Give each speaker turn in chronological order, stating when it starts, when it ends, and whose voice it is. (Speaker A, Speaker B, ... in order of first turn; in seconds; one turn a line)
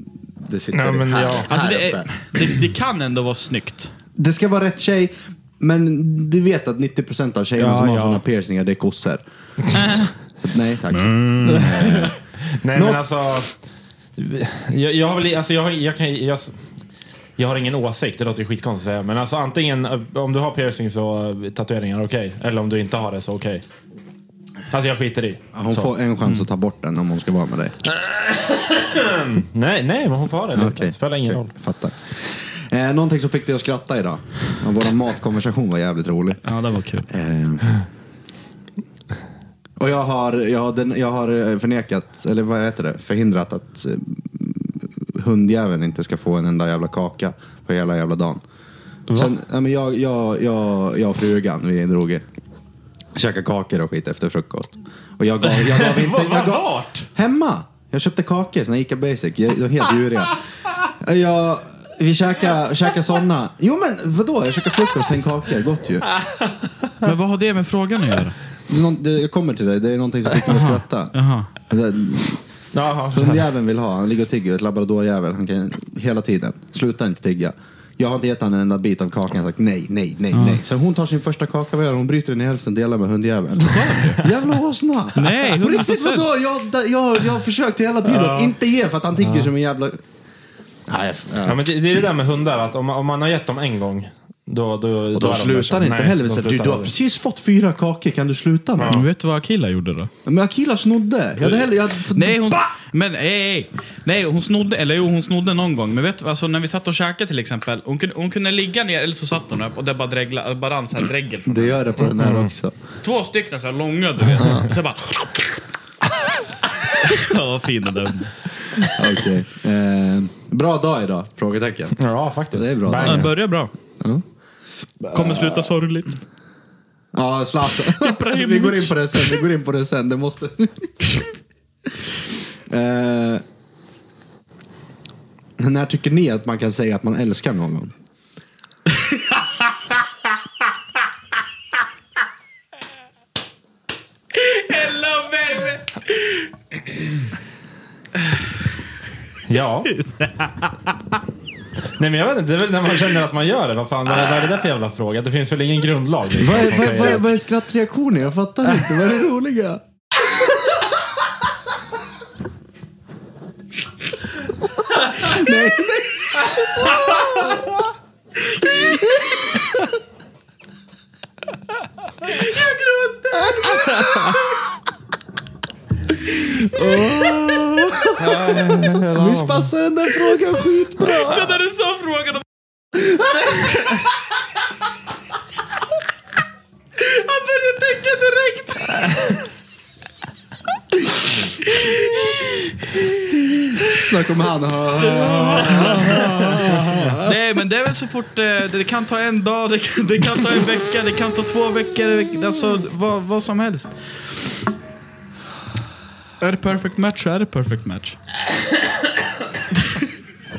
Speaker A: 0.4-2.1
Speaker B: 0.7-1.5
Speaker C: 1.5-3.9
Speaker A: 4.2-9.2
Speaker C: 7.6-8.2
Speaker C: 9.7-10.1
Speaker A: 10.4-12.2
Speaker B: 11.3-13.5
Speaker A: 12.7-13.0
Speaker B: 14.2-16.5
Speaker B: 17.4-23.6
Speaker B: 24.7-25.9
Speaker A: 25.5-27.8
Speaker B: 27.8-31.5
Speaker A: 30.5-36.4
Speaker C: 36.4-37.1
Speaker A: 37.1-37.7
Speaker A: 39.8-48.4
Speaker A: 49.1-52.2
Speaker A: 53.1-66.1
Speaker B: 55.4-57.1
Speaker B: 66.2-66.9
Speaker C: 67.0-68.3
Speaker A: 68.7-71.1
Speaker C: 70.4-71.5
Speaker A: 71.7-72.4
Speaker B: 72.7-73.4
Speaker A: 73.1-90.0
Speaker C: 80.3-80.6
Speaker C: 83.6-84.2
Speaker C: 85.1-86.3
Speaker B: 88.1-88.5
Speaker B: 89.2-89.5
Speaker A: 90.9-91.7
Speaker B: 91.4-96.9
Speaker A: 95.1-99.0
Speaker B: 98.8-99.0
Speaker C: 98.9-100.1
Speaker A: 100.2-102.7
Speaker B: 101.4-101.7
Speaker C: 102.1-111.8
Speaker A: 111.5-112.7
Speaker B: 112.1-112.5
Speaker C: 113.0-115.6
Speaker A: 114.4-114.7
Speaker C: 116.9-118.4
Speaker A: 118.8-122.0
Speaker B: 122.0-123.4
Speaker A: 122.5-123.3
Speaker C: 123.0-123.7
Speaker A: 125.0-125.7
Speaker C: 125.1-126.2
Speaker A: 127.1-131.1
Speaker C: 127.9-129.3
Speaker A: 132.7-133.4
Speaker A: 135.6-137.9
Speaker C: 144.4-145.9
Speaker B: 149.5-150.0
Speaker C: 150.1-150.7
Speaker B: 152.0-157.3
Speaker A: 156.4-160.9
Speaker A: 164.8-167.8
Speaker A: 168.6-169.8
Speaker C: 168.6-169.2
Speaker C: 172.3-174.6
Speaker A: 173.4-174.4
Speaker A: 176.2-181.6
Speaker C: 176.7-177.2
Speaker B: 178.2-179.7
Speaker C: 181.0-182.4
Speaker A: 182.9-184.1
Speaker C: 187.0-189.2
Speaker C: 191.7-192.4
Speaker A: 193.9-197.3
Speaker C: 195.2-196.5
Speaker C: 197.2-203.9
Speaker C: 206.4-208.2